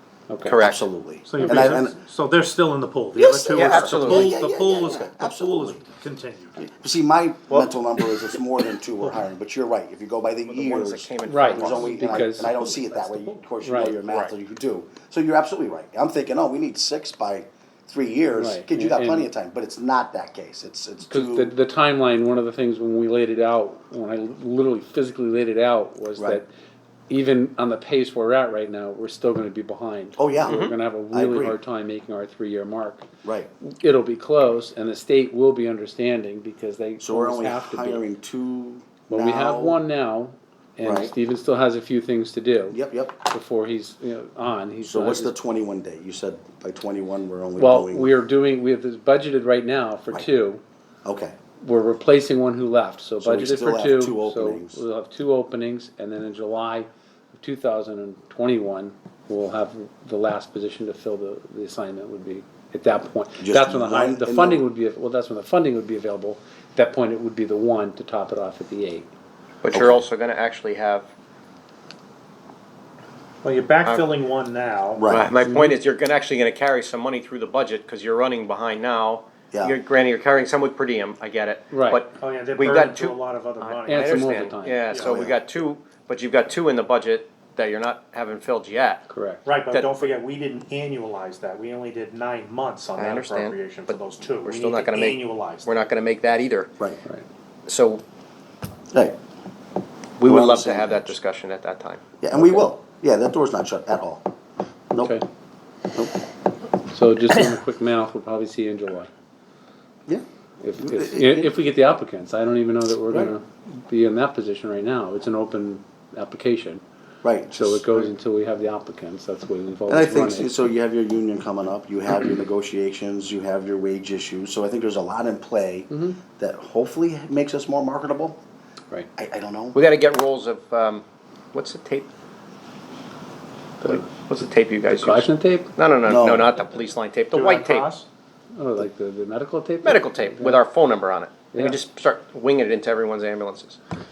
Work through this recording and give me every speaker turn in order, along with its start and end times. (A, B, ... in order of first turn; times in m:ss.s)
0:00.3-0:00.6 A
0:00.4-0:00.8 B
0:00.6-0:02.0 C
0:01.2-0:06.6 D
0:01.4-0:01.7 A
0:03.2-0:06.0 C
0:03.5-0:04.3 B
0:06.6-0:21.5 C
0:10.5-0:12.0 B
0:11.2-0:12.7 A
0:11.7-0:13.5 D
0:13.6-0:14.0 A
0:14.0-0:14.3 B
0:18.3-0:19.3 A
0:21.1-0:26.5 A
0:27.1-0:33.0 A
0:30.2-0:31.6 C
0:30.4-0:30.7 B
0:33.2-0:33.5 C
0:33.6-0:38.0 A
0:37.0-0:39.8 C
0:39.1-0:45.3 A
0:40.8-0:41.1 C
0:42.7-0:43.2 C
0:44.8-0:48.1 C
0:47.6-0:50.6 A
0:51.0-0:51.4 C
0:51.6-1:09.1 A
0:53.2-0:54.8 C
1:03.4-1:04.7 C
1:09.6-1:11.1 B
1:09.7-1:10.0 C
1:13.4-1:15.0 D
1:13.8-1:14.1 B
1:15.0-1:15.3 C
1:15.1-1:29.0 B
1:15.4-1:15.8 A
1:19.5-1:19.8 C
1:21.7-1:22.0 A
1:22.1-1:25.2 D
1:23.9-1:24.8 A
1:24.9-1:25.4 C
1:29.1-1:29.5 A
1:29.4-1:35.8 D
1:29.7-1:30.1 B
1:33.0-1:36.7 B
1:37.6-1:38.0 B
1:38.9-1:39.2 C
1:40.2-1:42.0 B
1:40.2-1:41.2 C
1:42.2-1:44.2 C
1:42.4-1:42.6 A
1:44.9-1:45.2 C
1:46.9-1:49.1 A
1:50.6-1:56.8 A
1:50.8-1:51.5 C
1:57.2-1:58.1 C
1:57.5-2:00.6 A
1:59.9-2:08.4 C
2:05.9-2:06.2 A
2:09.2-2:09.8 C
2:09.7-2:12.1 B
2:13.8-2:17.9 B
2:14.9-2:15.7 A
2:16.1-2:16.5 C
2:17.3-2:18.1 D
2:18.5-2:20.6 A
2:19.8-2:23.8 B
2:21.5-2:21.8 A